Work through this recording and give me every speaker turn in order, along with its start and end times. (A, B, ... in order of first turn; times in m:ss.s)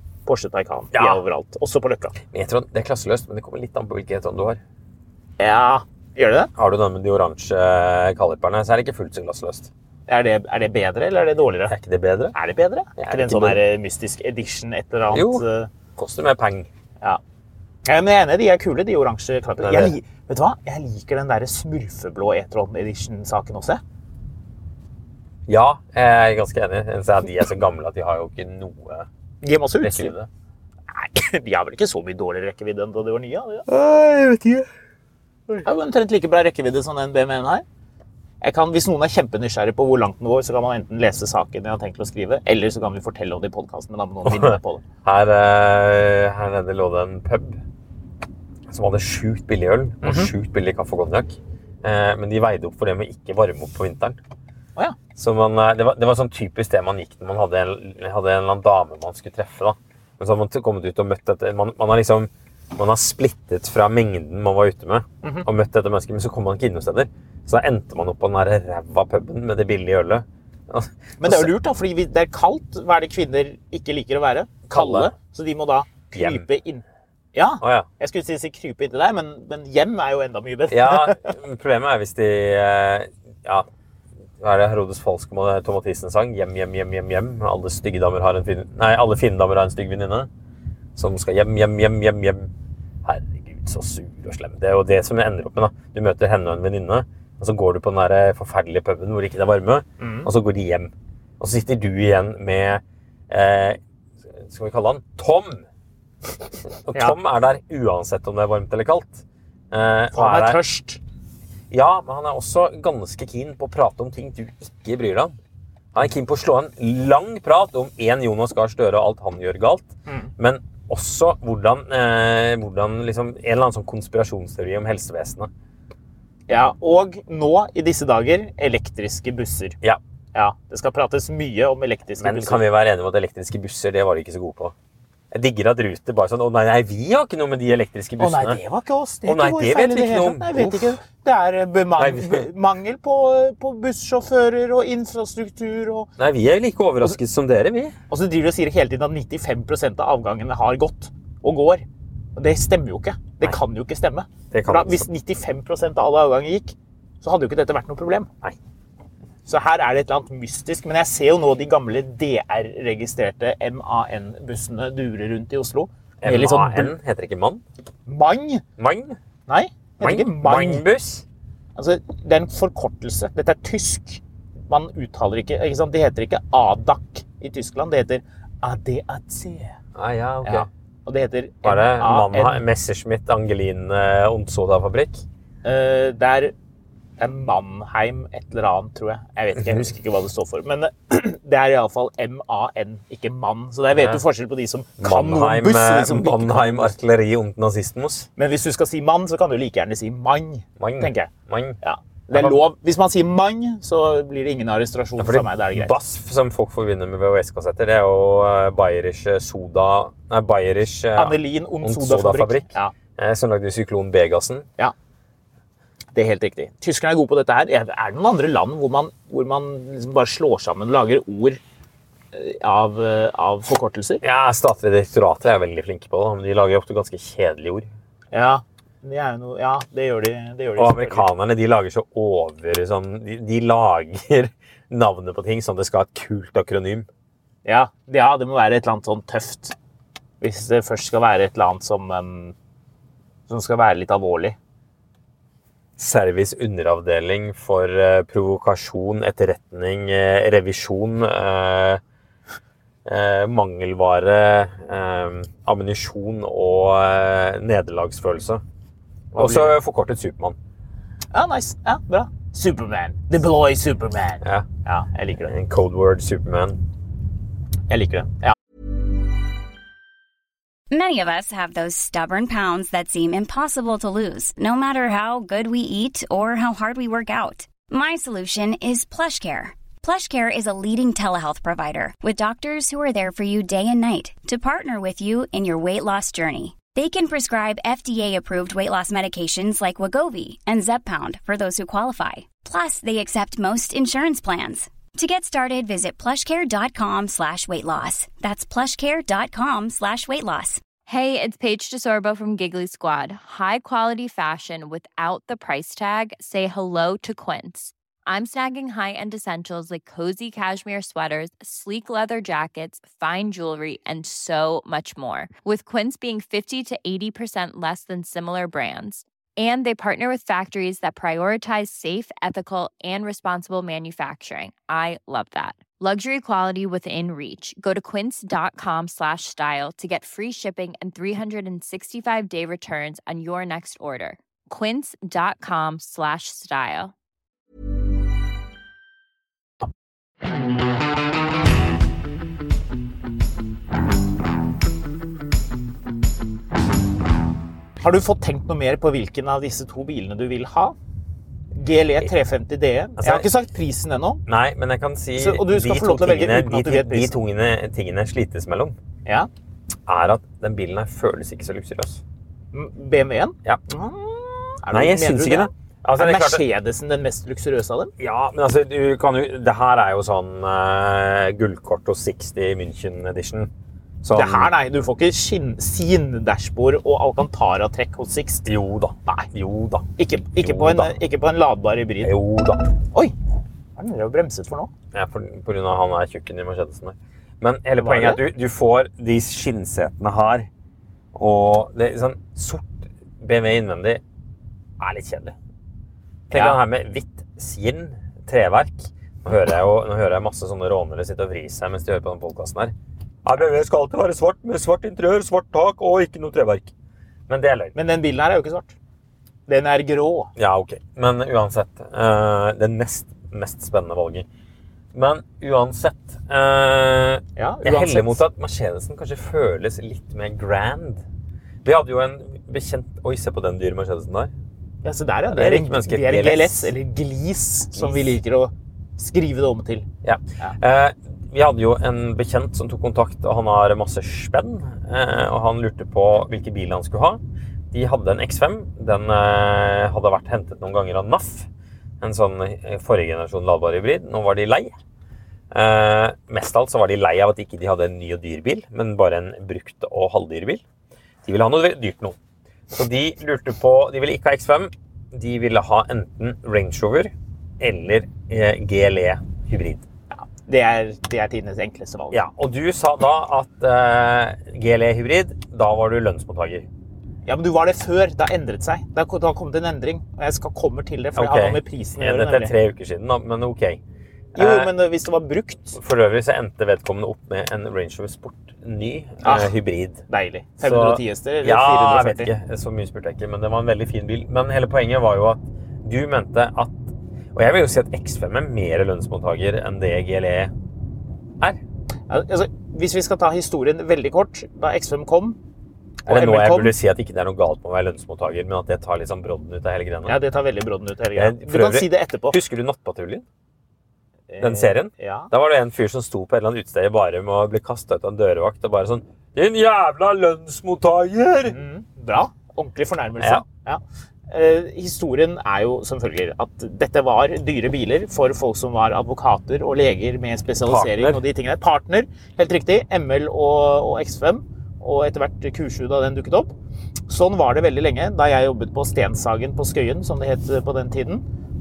0:00.2-0:02.2 A
0:00.9-0:01.2 B
0:02.3-0:04.6 B
0:05.4-0:06.5 A
0:06.6-0:09.7 B
0:10.1-0:11.7 A
0:11.7-0:12.3 B
0:12.3-0:15.7 A
0:13.0-0:13.6 B
0:15.1-0:15.4 B
0:16.0-0:16.7 B
0:17.8-0:23.8 A
0:19.6-0:19.9 B
0:25.5-0:29.1 B
0:29.4-0:30.1 A
0:29.8-0:30.3 B
0:30.9-0:33.7 A
0:33.7-0:34.7 B
0:35.6-0:37.6 A
0:38.4-0:44.8 A
0:44.2-0:47.6 B
0:48.7-0:54.2 B
0:50.0-0:50.3 A
0:55.1-1:11.5 B
1:11.2-1:16.8 A
1:14.7-1:15.1 B
1:16.1-1:16.4 B
1:17.3-1:21.3 A
1:17.6-1:17.9 B
1:20.7-1:23.7 B
1:24.4-1:30.3 B
1:31.0-1:32.5 B
1:33.0-1:45.6 B
1:40.0-1:40.3 A
1:46.6-1:50.6 B
1:50.1-1:51.0 A
1:51.7-1:55.4 B
1:55.9-2:05.5 B
2:00.0-2:00.3 A
2:06.5-2:09.8 A
2:10.3-2:12.6 A
2:12.2-2:14.7 B
2:15.3-2:18.6 B
2:18.2-2:26.1 A
2:19.2-2:21.0 B
2:22.0-2:22.5 B
2:26.2-2:28.0 B
2:28.1-2:38.3 A
2:34.5-2:35.1 B
2:39.4-2:46.9 A
2:46.2-2:47.6 B
2:48.0-2:48.6 A
2:48.8-2:49.2 B
2:49.5-2:50.8 A
2:50.0-2:51.2 B
2:51.8-2:59.8 A
2:59.9-3:00.7 B
3:00.4-3:02.6 A
3:01.6-3:05.2 B
3:05.6-3:06.5 A
3:07.2-3:16.9 A
3:09.6-3:09.8 B
3:13.9-3:14.2 B
3:15.0-3:18.3 B
3:18.4-3:21.3 A
3:20.8-3:21.8 B
3:21.8-3:25.9 A
3:22.3-3:22.6 B
3:25.2-3:34.7 B
3:31.1-3:32.9 A
3:36.1-3:41.6 A
3:42.3-3:44.2 A
3:44.2-3:47.9 B
3:48.3-3:51.3 A
3:50.8-3:57.1 B
3:57.6-3:59.7 A
4:00.4-4:02.5 A
4:03.5-4:04.6 A
4:06.0-4:12.0 B
4:13.0-4:18.6 B
4:19.3-4:19.8 A
4:19.3-4:20.6 B
4:21.3-4:25.5 A
4:24.4-4:24.7 B
4:25.4-4:26.8 B
4:27.9-4:28.5 A
4:30.9-5:00.8 C
5:01.0-5:37.1 D
5:48.0-5:51.0 A
5:51.7-5:54.4 A
5:53.2-5:53.5 B
5:54.4-5:59.0 B
5:55.4-5:57.3 A
6:00.1-6:02.2 B
6:02.7-6:08.1 A
6:04.9-6:06.6 B
6:08.2-6:13.7 B
6:14.2-6:14.7 B
6:14.3-6:18.7 A
6:18.6-6:21.2 B
6:20.2-6:22.4 A
6:22.2-6:22.9 B
6:24.0-6:24.9 A
6:25.1-6:30.7 B
6:28.0-6:28.4 A
6:31.3-6:34.2 B
6:35.0-6:35.5 B
6:36.5-6:42.9 B
6:36.5-6:36.8 A
6:43.4-6:46.9 B
6:47.5-6:47.9 B
6:47.9-6:48.9 A
6:49.7-6:50.5 A
6:50.6-6:54.4 B
6:55.1-7:01.2 B
6:57.6-6:58.4 A
7:01.8-7:04.5 B
7:05.0-7:10.1 A
7:05.5-7:06.9 B
7:08.0-7:08.4 B
7:10.2-7:17.4 B
7:17.9-7:21.7 B
7:22.2-7:24.9 B
7:25.7-7:30.8 B
7:31.4-7:32.4 B
7:32.9-7:40.0 B
7:40.3-7:42.4 A
7:42.3-7:46.9 B
7:47.4-7:52.7 A
7:51.4-7:54.0 B
7:54.5-7:54.9 B
7:54.6-7:56.0 A
7:55.9-8:00.2 B
7:59.4-7:59.8 A
8:00.3-8:02.5 A
8:00.8-8:10.7 B
8:12.3-8:15.6 A
8:16.2-8:16.9 A
8:16.2-8:20.4 B
8:20.2-8:22.6 A
8:21.3-8:23.4 B
8:24.5-8:25.5 A
8:24.6-8:31.8 B
8:31.6-8:46.7 A
8:33.4-8:33.6 B
8:40.8-8:41.4 B
8:47.3-8:51.4 A